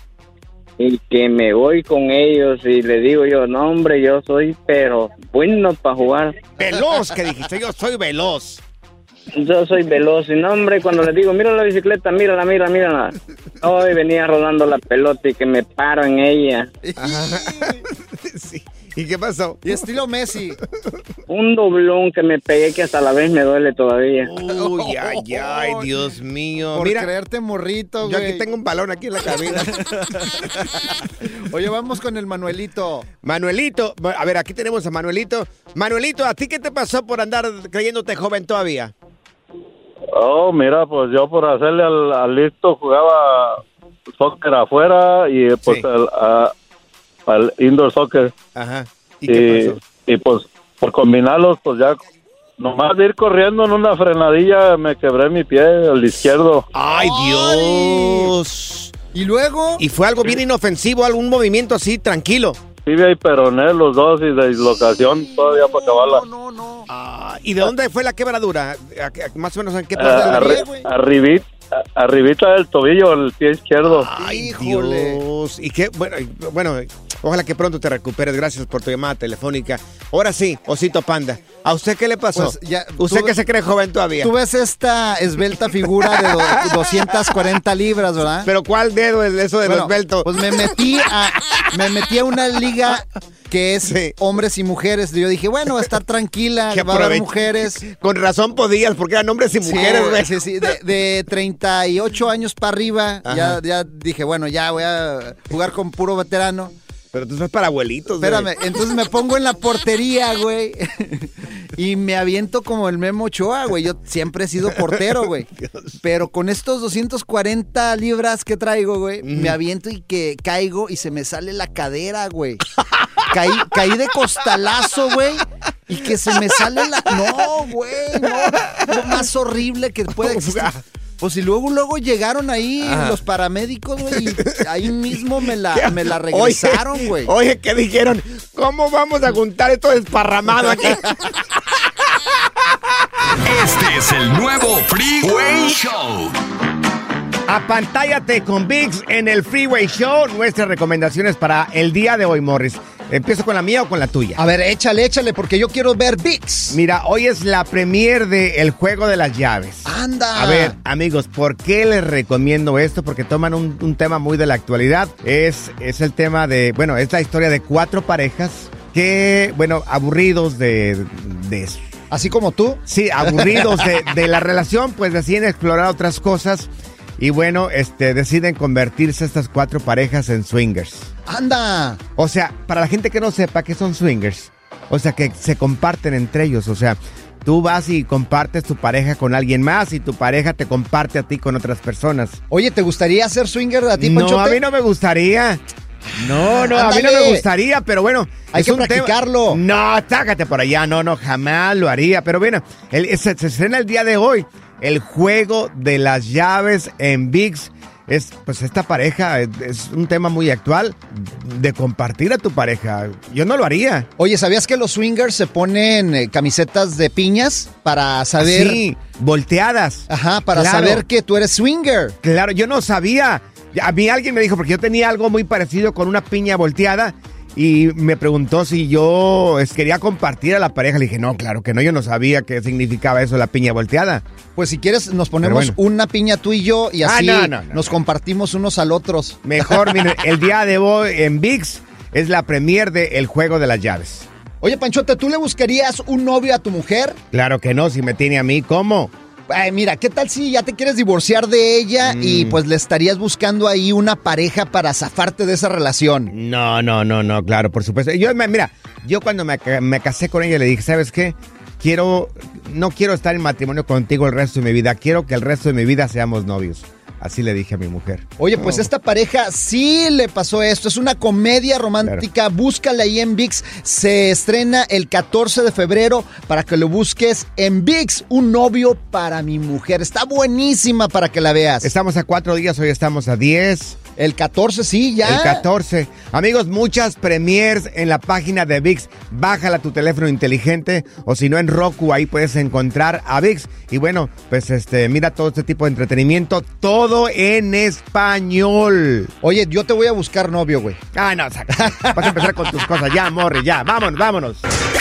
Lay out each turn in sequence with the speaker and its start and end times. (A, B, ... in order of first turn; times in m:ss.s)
0:00.8-0:06.4 A
0:06.6-0:08.6 B
0:09.4-0:16.7 A
0:16.8-0:17.8 C
0:17.0-0:19.8 B
0:19.6-0:20.6 C
0:21.3-0:24.3 A
0:24.2-0:27.1 B
0:24.5-0:25.9 C
0:26.7-0:28.4 C
0:28.0-0:30.3 B
0:29.3-0:33.1 C
0:33.2-0:38.9 B
0:40.1-0:43.6 D
0:44.2-0:46.5 D
0:47.3-0:48.3 D
0:48.6-0:49.8 B
0:49.3-0:52.0 D
0:52.6-0:56.7 D
0:56.7-0:59.0 B
0:56.9-0:58.3 C
0:59.1-0:59.8 C
0:59.8-1:02.6 B
1:02.9-1:06.2 D
1:04.7-1:06.9 C
1:06.9-1:10.7 B
1:10.0-1:10.9 C
1:10.0-1:14.1 D
1:13.8-1:24.3 B
1:14.1-1:15.2 C
1:22.3-1:23.4 C
1:24.2-1:28.5 C
1:26.2-1:26.6 B
1:28.4-1:30.3 B
1:29.6-1:37.8 C
1:33.9-1:34.1 B
1:36.7-1:37.3 B
1:37.8-1:40.3 B
1:39.6-1:46.8 C
1:43.3-1:43.6 B
1:47.1-1:48.5 B
1:48.2-1:55.5 C
1:55.6-1:56.0 B
1:56.0-2:02.6 C
1:59.2-1:59.6 B
2:03.3-2:17.3 C
2:08.4-2:09.0 B
2:10.2-2:10.8 B
2:12.8-2:13.2 B
2:15.7-2:21.2 B
2:23.4-2:26.4 E
2:27.5-2:34.4 B
2:34.4-2:36.8 C
2:36.7-2:51.8 B
2:39.8-2:40.8 C
2:52.1-2:53.9 C
2:52.9-3:01.1 B
3:01.3-3:02.0 C
3:02.2-3:12.4 B
3:12.5-3:14.6 C
3:14.0-3:15.6 B
3:16.2-3:34.1 B
3:16.4-3:17.5 C
3:18.5-3:19.6 C
3:34.2-3:38.8 C
3:38.4-3:41.0 B
3:40.1-3:42.2 C
3:42.2-3:54.2 B
3:54.6-4:00.1 C
3:55.4-3:55.8 B
3:57.0-3:57.9 B
3:59.4-4:04.3 B
4:04.6-4:07.2 C
4:07.3-4:09.1 B
4:09.5-4:16.3 C
4:12.0-4:12.6 B
4:16.3-4:28.9 B
4:28.4-4:41.9 C
4:41.8-4:44.0 B
4:44.2-4:45.6 C
4:45.2-4:59.3 B
4:59.4-5:01.0 C
5:01.1-5:04.6 B
5:01.8-5:02.5 C